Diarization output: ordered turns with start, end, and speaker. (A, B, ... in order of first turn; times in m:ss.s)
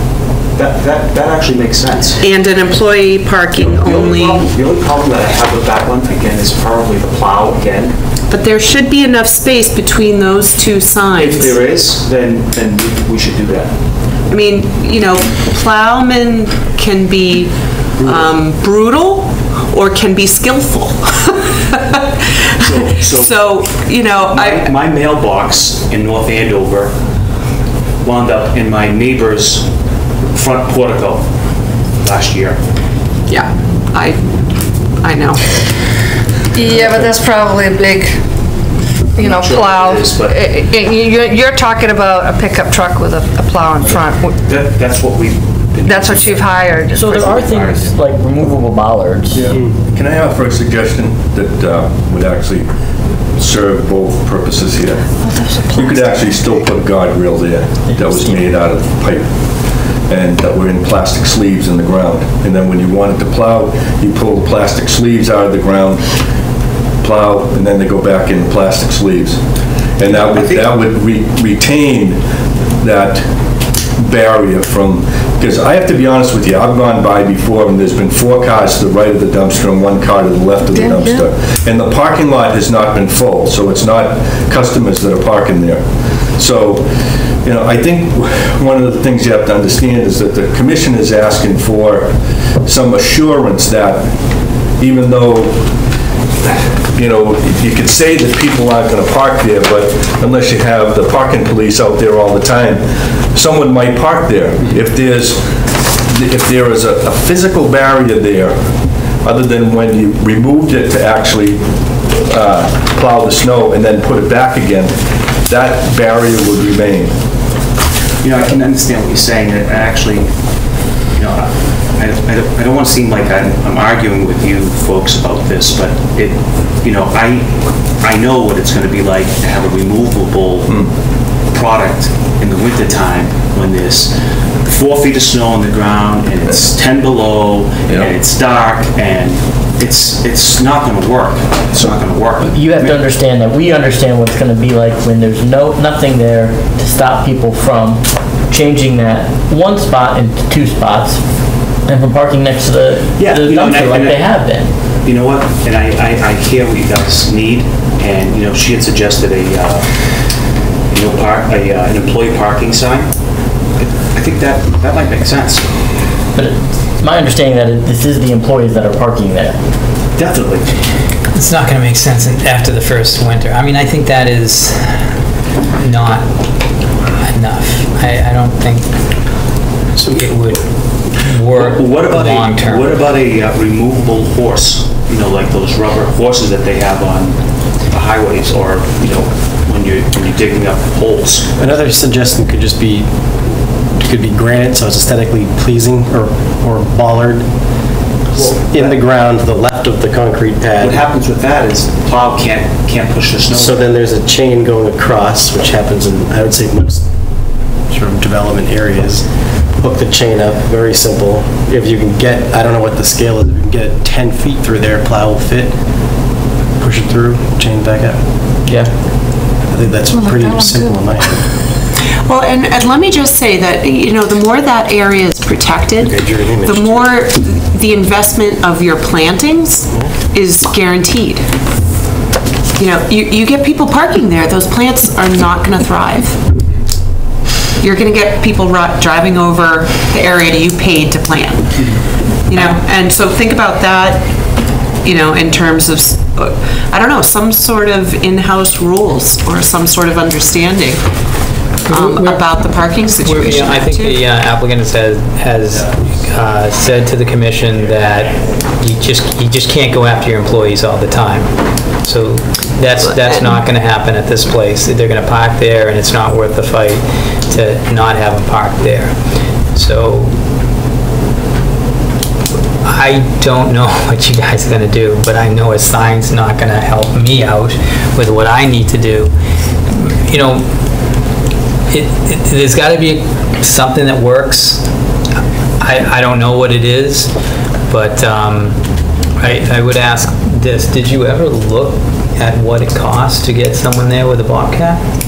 0:00.6-0:02.2 A
0:02.2-0:04.4 B
0:03.6-0:07.9 A
0:08.3-0:11.6 B
0:11.2-0:13.7 A
0:14.3-0:24.7 B
0:18.0-0:18.3 A
0:22.6-0:23.5 A
0:24.2-0:27.0 A
0:28.0-0:29.7 A
0:30.3-0:31.3 A
0:32.0-0:32.6 A
0:33.3-0:34.2 B
0:35.0-0:35.4 B
0:36.5-0:38.2 C
0:39.1-0:40.5 A
0:39.2-0:44.3 C
0:44.4-0:48.0 A
0:45.8-0:47.3 C
0:46.9-0:49.6 D
0:49.3-0:52.7 E
0:53.4-1:06.1 E
0:55.2-0:56.3 C
0:57.9-0:58.5 D
1:07.0-1:09.4 E
1:10.0-1:12.2 E
1:10.0-1:10.7 A
1:12.8-1:13.3 E
1:13.8-1:26.9 E
1:20.7-1:21.2 C
1:27.4-1:35.8 E
1:36.8-1:57.1 E
1:58.2-2:00.3 A
2:01.0-2:10.9 A
2:11.5-2:23.0 A
2:22.5-2:34.7 D
2:33.2-2:40.1 A
2:40.9-2:43.1 A
2:43.8-2:45.7 A
2:46.3-2:49.6 D
2:50.1-2:50.7 A
2:51.3-2:55.1 F
2:55.8-2:59.4 F
3:00.0-3:00.3 A
3:00.0-3:03.0 F
3:01.5-3:11.5 A
3:11.6-3:17.5 G
3:18.3-3:19.0 A
3:18.3-3:21.0 G
3:20.8-3:23.9 A
3:23.5-3:27.2 G
3:27.9-3:36.2 G
3:36.8-3:38.3 G
3:38.6-3:39.3 D
3:39.5-3:41.5 G
3:40.1-3:41.4 C
3:42.2-3:51.5 B
3:46.0-3:47.2 G
3:49.9-3:50.2 G
3:52.8-3:56.5 B
3:57.8-4:11.1 B
4:11.9-4:30.4 F
4:11.9-4:14.2 B
4:23.1-4:23.6 B
4:32.8-4:39.3 F
4:39.9-4:40.7 F
4:41.9-4:44.8 F
4:45.8-4:47.3 F
4:47.9-4:48.8 F
4:49.4-4:55.0 F